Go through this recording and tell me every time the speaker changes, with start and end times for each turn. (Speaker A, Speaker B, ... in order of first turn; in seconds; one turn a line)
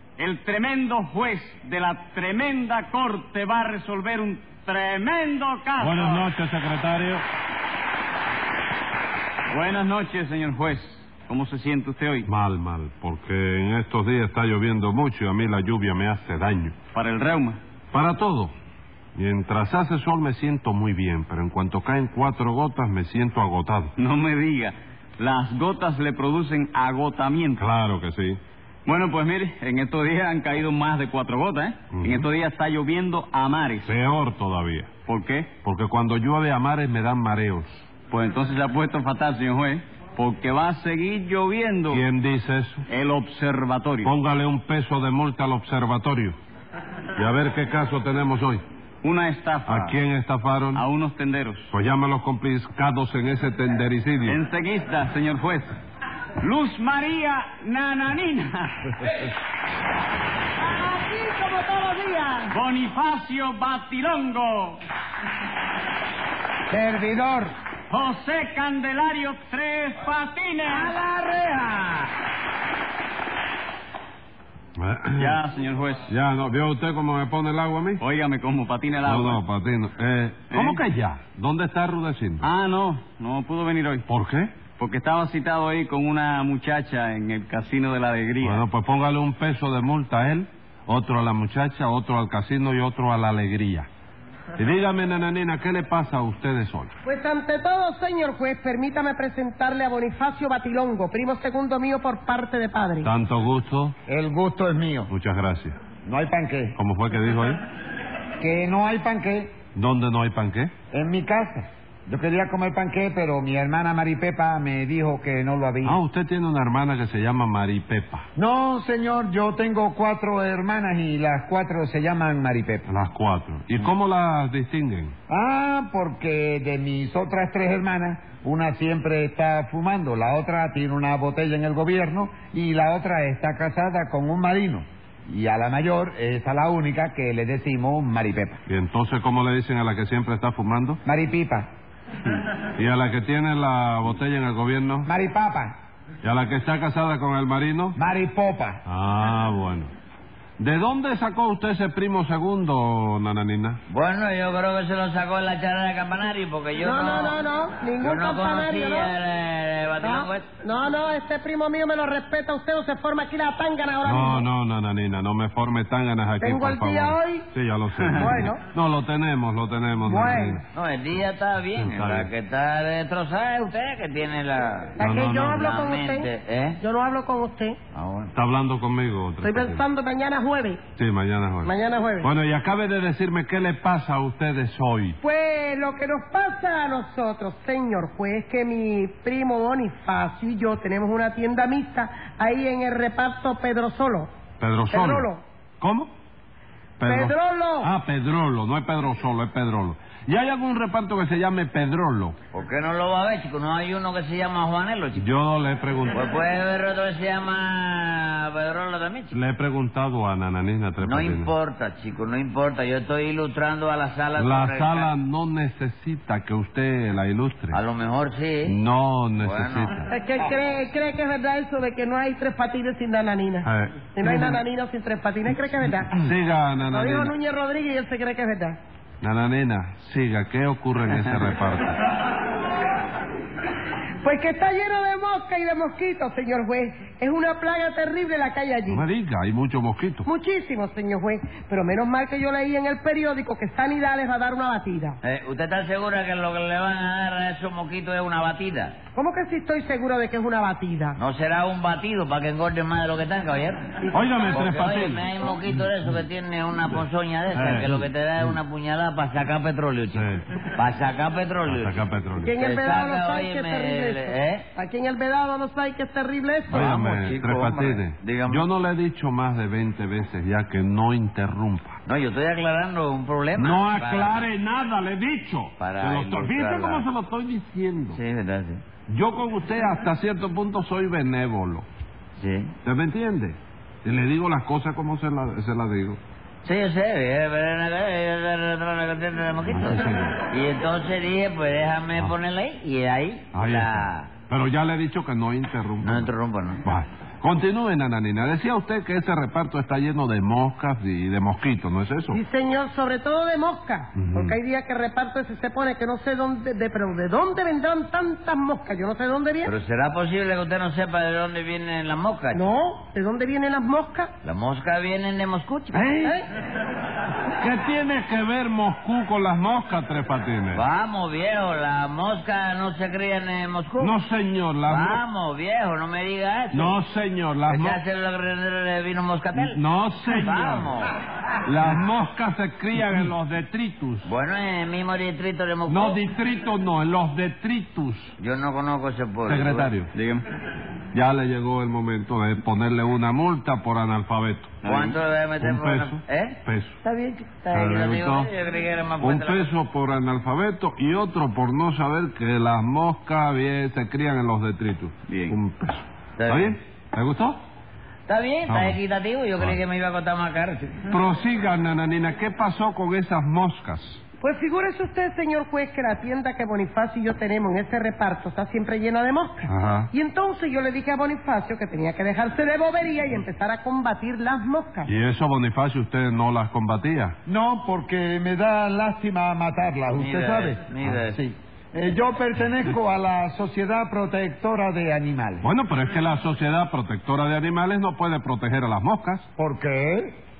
Speaker A: 0.2-6.3
Speaker B: 5.8-7.2
Speaker A: 9.5-12.3
Speaker B: 12.2-16.8
Speaker A: 16.9-17.6
Speaker B: 17.9-18.5
Speaker B: 19.1-23.9
Speaker A: 24.0-27.6
Speaker B: 27.6-28.4
Speaker A: 28.9-33.9
Speaker B: 31.9-32.3
Speaker B: 33.8-34.9
Speaker A: 35.1-35.5
Speaker B: 35.6-37.9
Speaker A: 38.1-42.0
Speaker B: 41.9-42.8
Speaker A: 42.9-44.1
Speaker B: 44.0-46.4
Speaker B: 47.2-48.6
Speaker A: 49.0-50.0
Speaker B: 49.6-50.8
Speaker A: 50.7-51.7
Speaker B: 51.7-54.4
Speaker A: 54.2-55.8
Speaker A: 56.4-59.1
Speaker C: 60.6-62.6
Speaker A: 62.5-64.8
Speaker D: 66.7-67.5
Speaker A: 67.9-70.9
Speaker D: 71.0-72.0
Speaker E: 71.3-71.8
Speaker B: 74.8-75.4
Speaker A: 75.2-76.1
Speaker B: 76.1-78.0
Speaker A: 78.0-79.4
Speaker B: 79.0-82.5
Speaker A: 80.5-80.8
Speaker A: 82.4-84.0
Speaker B: 84.1-84.5
Speaker A: 84.8-88.7
Speaker B: 88.4-93.9
Speaker B: 94.6-96.9
Speaker C: 97.0-103.1
Speaker B: 103.0-103.9
Speaker D: 104.1-105.1
Speaker B: 105.1-105.8
Speaker D: 106.0-106.8
Speaker B: 106.8-107.6
Speaker D: 108.4-109.5
Speaker B: 109.7-110.7
Speaker D: 110.9-116.0
Speaker B: 115.8-118.2
Speaker D: 118.4-122.9
Speaker B: 122.9-125.1
Speaker D: 125.3-138.6
Speaker B: 138.7-141.0
Speaker D: 141.0-141.7
Speaker B: 142.8-145.1
Speaker D: 145.1-145.7
Speaker B: 146.2-147.9
Speaker D: 147.9-148.8
Speaker B: 148.9-149.9
Speaker B: 150.6-153.8
Speaker E: 153.9-157.4
Speaker C: 156.8-159.1
Speaker E: 158.0-160.5
Speaker C: 160.0-164.5
Speaker B: 164.0-170.6
Speaker C: 166.4-167.5
Speaker C: 168.2-168.6
Speaker C: 170.0-170.6
Speaker E: 170.7-176.8
Speaker B: 171.7-172.3
Speaker C: 175.0-177.8
Speaker B: 175.0-175.6
Speaker E: 177.9-178.3
Speaker B: 178.3-179.8
Speaker C: 179.4-180.8
Speaker B: 181.0-185.2
Speaker C: 181.6-182.3
Speaker C: 185.2-194.3
Speaker B: 194.6-195.3
Speaker C: 194.9-195.4
Speaker B: 195.8-196.1
Speaker B: 197.0-202.3
Speaker C: 197.0-197.9
Speaker E: 202.5-205.2
Speaker B: 205.2-206.3
Speaker E: 206.1-209.4
Speaker B: 209.3-211.5
Speaker E: 211.0-215.1
Speaker B: 214.3-217.8
Speaker E: 217.7-218.8
Speaker B: 218.7-220.1
Speaker E: 219.4-219.9
Speaker C: 220.0-226.2
Speaker B: 223.6-224.6
Speaker B: 226.1-227.3
Speaker C: 226.9-228.8
Speaker B: 229.2-232.0
Speaker C: 234.2-239.0
Speaker B: 238.9-240.3
Speaker C: 240.2-245.2
Speaker E: 245.2-249.0
Speaker C: 249.1-251.2
Speaker E: 251.2-264.7
Speaker C: 254.0-254.7
Speaker B: 254.1-255.3
Speaker B: 257.5-258.1
Speaker B: 260.1-260.5
Speaker B: 261.6-262.6
Speaker C: 262.4-267.4
Speaker E: 266.7-268.7
Speaker B: 266.7-272.0
Speaker E: 272.1-274.4
Speaker B: 273.5-278.2
Speaker E: 275.8-277.1
Speaker E: 278.1-278.8
Speaker B: 279.1-281.8
Speaker E: 282.4-282.7
Speaker B: 282.8-286.2
Speaker E: 286.6-294.4
Speaker B: 289.6-290.4
Speaker B: 293.5-296.3
Speaker E: 296.0-296.8
Speaker B: 296.8-302.4
Speaker C: 302.3-309.7
Speaker B: 304.1-304.6
Speaker E: 309.6-312.7
Speaker C: 312.5-314.3
Speaker E: 314.4-316.1
Speaker B: 315.9-316.4
Speaker C: 316.2-316.4
Speaker B: 317.4-320.8
Speaker E: 320.7-324.2
Speaker B: 324.0-325.2
Speaker E: 324.8-327.0
Speaker B: 326.7-328.0
Speaker E: 327.6-331.1
Speaker B: 329.5-330.9
Speaker B: 331.6-334.3
Speaker E: 334.2-336.2
Speaker B: 335.9-338.3
Speaker E: 338.4-339.9
Speaker B: 339.5-340.1
Speaker A: 340.1-340.4
Speaker B: 341.1-344.8
Speaker A: 344.8-345.1
Speaker E: 344.8-349.7
Speaker B: 345.6-346.9
Speaker B: 347.7-348.5
Speaker B: 349.2-357.6
Speaker A: 355.3-355.5
Speaker E: 356.4-356.8
Speaker E: 358.3-361.0
Speaker B: 358.7-359.0
Speaker B: 361.1-364.2
Speaker C: 364.4-375.1
Speaker B: 369.6-370.1
Speaker B: 375.1-377.4
Speaker D: 377.5-385.6
Speaker E: 380.1-381.4
Speaker B: 385.6-389.5
Speaker D: 389.6-390.4